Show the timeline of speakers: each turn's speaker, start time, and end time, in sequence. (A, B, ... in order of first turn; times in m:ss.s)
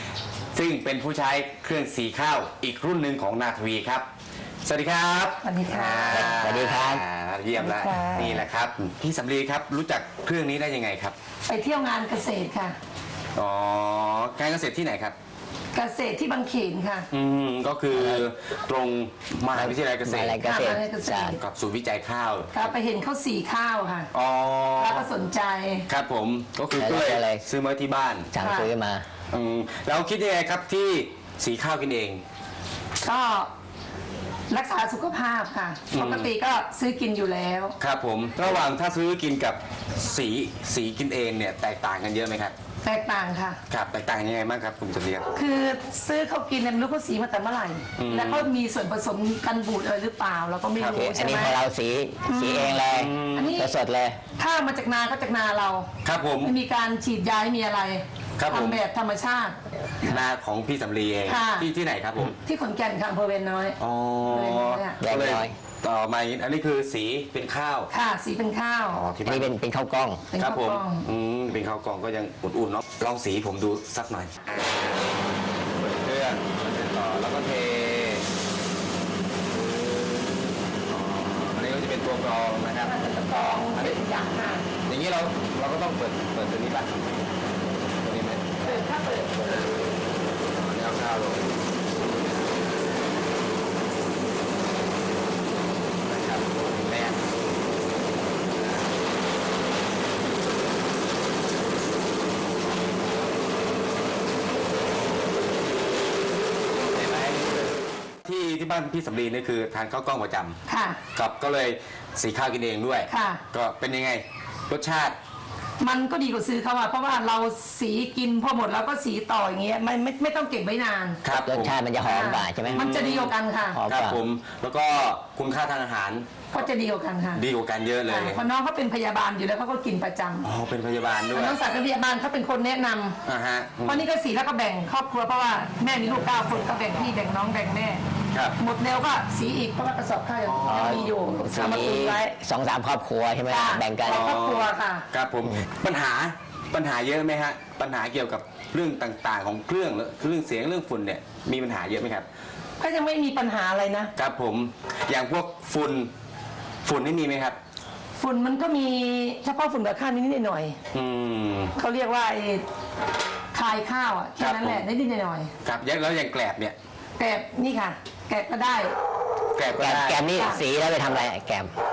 0:00.5-0:04.1 A
0:04.6-0:11.2 A
0:05.4-0:06.3 B
0:06.1-0:07.0 C
0:07.6-0:08.4 B
0:11.5-0:12.8 B
0:13.4-0:15.2 A
0:15.7-0:17.1 B
0:17.1-0:20.4 A
0:17.9-0:18.3 C
0:19.5-0:21.4 C
0:20.4-0:21.4 B
0:21.4-0:22.7 A
0:22.5-0:24.1 B
0:24.1-0:25.1 A
0:24.8-0:25.8 B
0:25.9-0:28.3 A
0:26.7-0:27.4 C
0:28.3-0:29.1 C
0:28.4-0:28.7 B
0:29.3-0:32.2 A
0:33.0-0:33.5 B
0:34.5-0:37.8 B
0:35.9-0:36.3 A
0:37.8-0:42.6 A
0:42.8-0:43.6 B
0:43.7-0:45.3 A
0:45.4-0:51.6 B
0:48.0-0:48.5 A
0:50.8-0:51.1 A
0:50.9-0:54.2 C
0:52.3-0:53.7 B
0:52.8-0:53.6 A
0:54.4-1:00.2 B
0:56.0-0:56.5 A
0:58.4-0:58.8 A
1:00.0-1:02.4 A
1:01.3-1:01.7 B
1:02.4-1:05.0 B
1:03.8-1:07.9 A
1:05.0-1:05.6 C
1:07.9-1:09.0 B
1:08.9-1:09.5 A
1:09.2-1:10.3 C
1:10.3-1:11.0 B
1:10.4-1:14.5 A
1:15.7-1:18.2 A
1:19.5-1:23.0 A
1:22.8-1:24.7 B
1:23.7-1:24.0 A
1:24.9-1:27.3 A
1:27.9-1:29.8 A
1:28.6-1:29.5 B
1:30.5-1:31.5 A
1:36.0-1:37.2 A
1:38.5-1:38.9 A
1:46.7-1:50.6 A
1:50.7-1:51.0 B
1:51.1-1:55.2 A
1:53.1-1:53.4 B
1:55.8-2:01.2 B
2:01.2-2:01.8 A
2:01.5-2:02.9 C
2:02.0-2:03.8 B
2:02.7-2:03.4 A
2:03.7-2:04.2 C
2:03.9-2:06.4 A
2:06.5-2:07.4 B
2:07.4-2:08.4 A
2:08.1-2:10.5 B
2:10.4-2:11.6 A
2:11.3-2:13.2 B
2:13.2-2:14.1 A
2:13.8-2:18.0 B
2:18.6-2:22.3 B
2:20.5-2:21.1 A
2:20.7-2:24.2 C
2:23.5-2:25.0 B
2:24.0-2:32.3 A
2:32.8-2:34.1 B
2:34.2-2:36.1 A
2:36.8-2:37.6 A
2:38.2-2:40.8 B
2:40.9-2:41.7 A
2:41.8-2:42.6 B
2:43.5-2:45.5 B
2:44.4-2:44.9 A
2:45.6-2:46.8 A
2:47.2-2:48.9 B
2:49.6-2:50.3 A
2:49.8-2:51.8 C
2:50.3-2:50.6 B